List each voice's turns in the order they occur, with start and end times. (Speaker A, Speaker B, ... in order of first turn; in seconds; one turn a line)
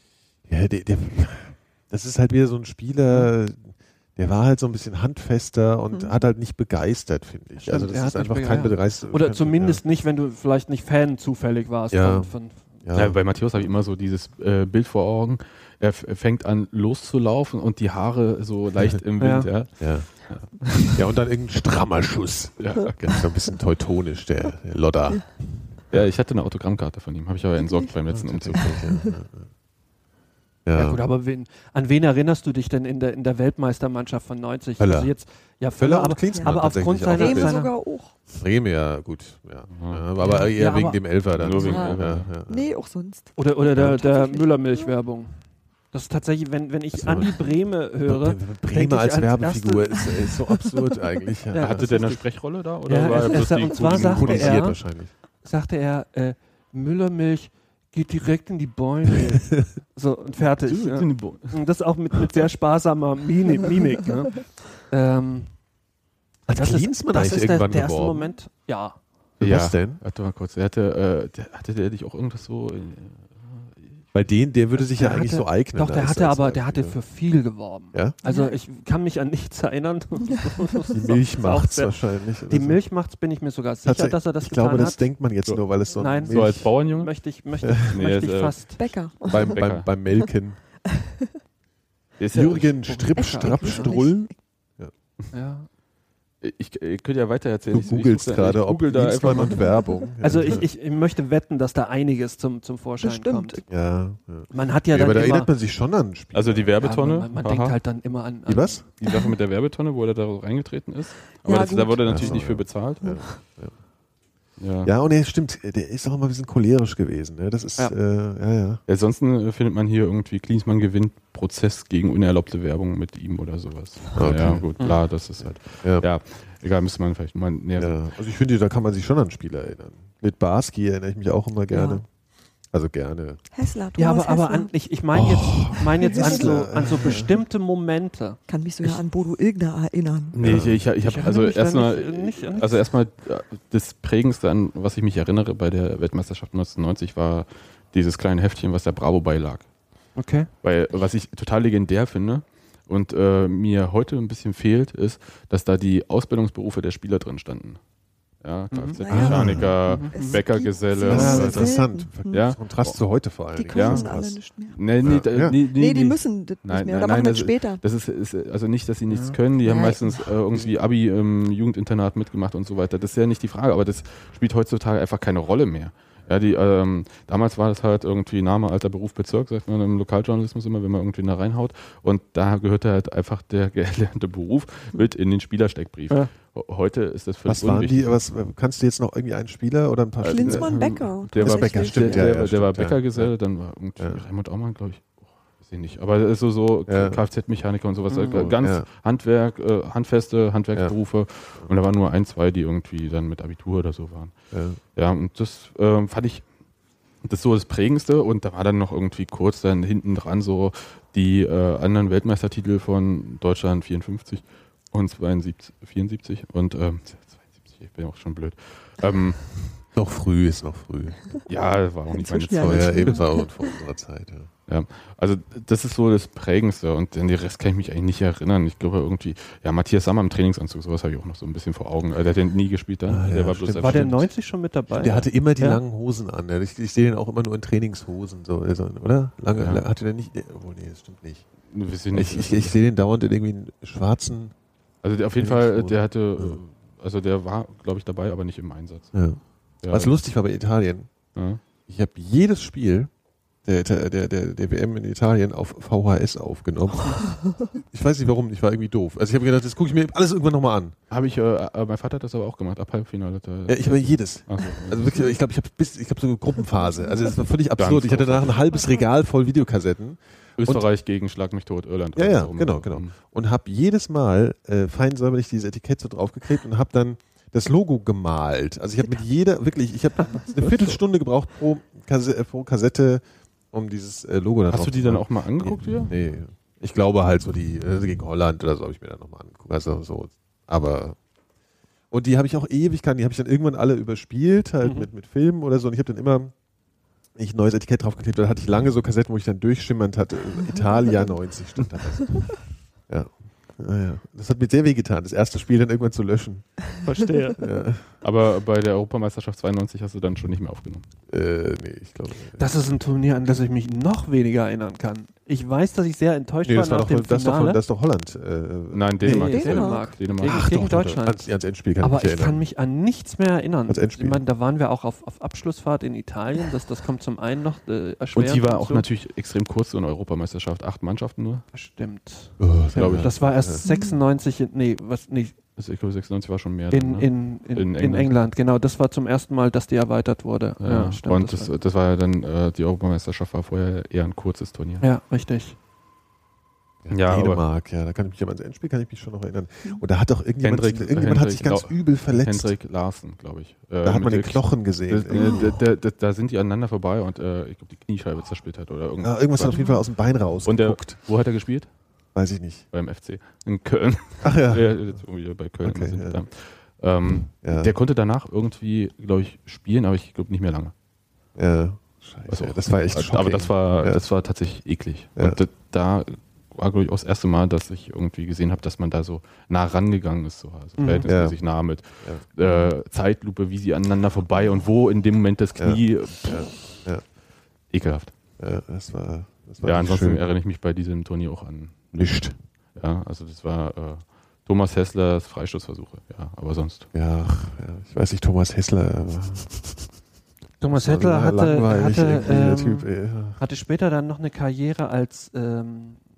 Speaker A: 0.5-9.8
Speaker B: 5.9-6.2
Speaker C: 7.6-12.7
Speaker A: 11.9-13.4
Speaker D: 12.9-21.0
Speaker C: 19.2-19.5
Speaker A: 19.8-26.1
Speaker D: 22.6-23.2
Speaker D: 25.9-28.8
Speaker B: 27.6-27.9
Speaker A: 28.1-29.5
Speaker B: 28.6-29.1
Speaker A: 30.6-31.0
Speaker C: 30.7-37.7
Speaker A: 34.8-35.1
Speaker A: 35.8-42.7
Speaker B: 35.9-38.2
Speaker D: 39.7-40.0
Speaker C: 40.2-41.8
Speaker D: 41.3-42.3
Speaker B: 41.6-44.9
Speaker C: 43.4-50.4
Speaker A: 46.9-51.9
Speaker C: 51.5-52.2
Speaker D: 51.7-54.7
Speaker C: 52.9-54.8
Speaker A: 53.7-55.1
Speaker C: 55.4-65.5
Speaker D: 60.6-61.6
Speaker C: 66.5-69.0
Speaker A: 66.5-68.2
Speaker A: 69.4-70.0
Speaker D: 69.4-74.0
Speaker A: 74.1-77.0
Speaker C: 74.9-85.1
Speaker B: 78.2-78.6
Speaker A: 80.9-82.8
Speaker A: 83.8-86.8
Speaker C: 86.0-89.0
Speaker D: 86.2-87.4
Speaker A: 87.6-88.0
Speaker D: 87.9-89.9
Speaker B: 88.8-89.6
Speaker A: 89.2-90.6
Speaker D: 92.2-92.9
Speaker A: 92.3-94.9
Speaker C: 92.8-94.0
Speaker B: 93.2-94.3
Speaker C: 95.3-95.7
Speaker D: 96.4-99.8
Speaker A: 97.7-100.7
Speaker B: 99.3-99.9
Speaker C: 100.2-103.6
Speaker B: 103.0-103.6
Speaker A: 103.7-106.7
Speaker C: 104.5-105.5
Speaker D: 106.3-107.8
Speaker C: 106.8-108.8
Speaker A: 108.5-108.8
Speaker D: 109.0-113.4
Speaker B: 111.4-113.4
Speaker A: 112.0-113.8
Speaker D: 114.6-114.9
Speaker A: 114.8-118.8
Speaker D: 118.9-128.0
Speaker A: 124.2-126.1
Speaker A: 127.8-132.1
Speaker B: 131.7-132.0
Speaker A: 132.7-133.4
Speaker B: 133.5-134.7
Speaker C: 133.9-139.0
Speaker A: 135.1-137.3
Speaker B: 136.0-136.5
Speaker B: 138.5-140.4
Speaker D: 140.3-157.8
Speaker A: 140.4-140.9
Speaker C: 141.0-142.8
Speaker C: 150.2-150.5
Speaker D: 158.4-163.0
Speaker C: 158.7-159.0
Speaker B: 158.9-162.5
Speaker A: 159.1-159.9
Speaker C: 159.8-160.4
Speaker A: 161.0-164.4
Speaker C: 161.1-161.5
Speaker B: 163.5-167.8
Speaker D: 163.7-188.2
Speaker A: 165.0-165.6
Speaker C: 169.1-169.4
Speaker B: 169.6-170.0
Speaker A: 187.5-194.2
Speaker D: 190.2-204.3
Speaker B: 190.3-192.3
Speaker A: 196.9-197.2
Speaker C: 198.1-198.5
Speaker A: 198.3-198.8
Speaker A: 204.5-204.8
Speaker D: 204.9-206.4
Speaker D: 207.2-219.8
Speaker A: 219.9-221.3
Speaker D: 221.5-223.3
Speaker B: 222.1-223.7
Speaker A: 222.5-224.5
Speaker D: 224.7-234.3
Speaker A: 233.1-234.2
Speaker C: 233.8-235.8
Speaker A: 234.9-241.5
Speaker D: 239.5-239.8
Speaker D: 241.7-242.8
Speaker A: 242.1-244.5
Speaker D: 245.0-250.2
Speaker A: 245.4-246.6
Speaker A: 249.1-251.1
Speaker D: 251.3-251.6
Speaker A: 251.9-253.1
Speaker A: 253.6-260.9
Speaker D: 261.1-265.3
Speaker A: 263.7-270.9
Speaker D: 267.8-268.6
Speaker D: 270.6-273.1
Speaker A: 272.1-291.2
Speaker D: 280.6-281.0
Speaker D: 284.7-286.1
Speaker A: 292.1-296.5
Speaker C: 294.8-295.1
Speaker A: 297.4-307.0
Speaker C: 307.0-307.6
Speaker A: 307.6-308.1
Speaker D: 308.2-311.1
Speaker A: 311.3-312.7
Speaker C: 312.6-317.8
Speaker A: 316.6-319.6
Speaker D: 318.9-321.2
Speaker C: 319.3-321.4
Speaker B: 319.3-320.1
Speaker A: 320.2-322.6
Speaker C: 322.0-329.1
Speaker A: 323.9-324.4
Speaker D: 328.3-331.6
Speaker C: 331.7-335.6
Speaker A: 332.6-333.9
Speaker D: 332.9-333.4
Speaker B: 333.8-334.2
Speaker D: 335.8-338.3
Speaker C: 336.9-341.7
Speaker D: 340.8-345.1
Speaker C: 345.0-345.8
Speaker A: 347.0-352.8
Speaker D: 347.1-347.6
Speaker D: 350.6-360.0
Speaker A: 354.0-355.8
Speaker A: 359.2-361.2
Speaker B: 359.7-360.0
Speaker D: 360.6-361.9
Speaker A: 362.3-362.9
Speaker D: 362.9-370.9
Speaker A: 364.4-365.1
Speaker A: 365.8-366.5
Speaker A: 367.5-367.9
Speaker A: 371.6-374.2
Speaker D: 372.5-387.1
Speaker C: 381.0-381.3
Speaker A: 381.2-382.4
Speaker A: 385.8-387.2
Speaker D: 387.9-388.3
Speaker A: 388.6-390.4
Speaker D: 389.8-397.1
Speaker A: 392.2-392.6
Speaker A: 397.1-400.1
Speaker C: 400.8-406.2
Speaker A: 400.9-403.6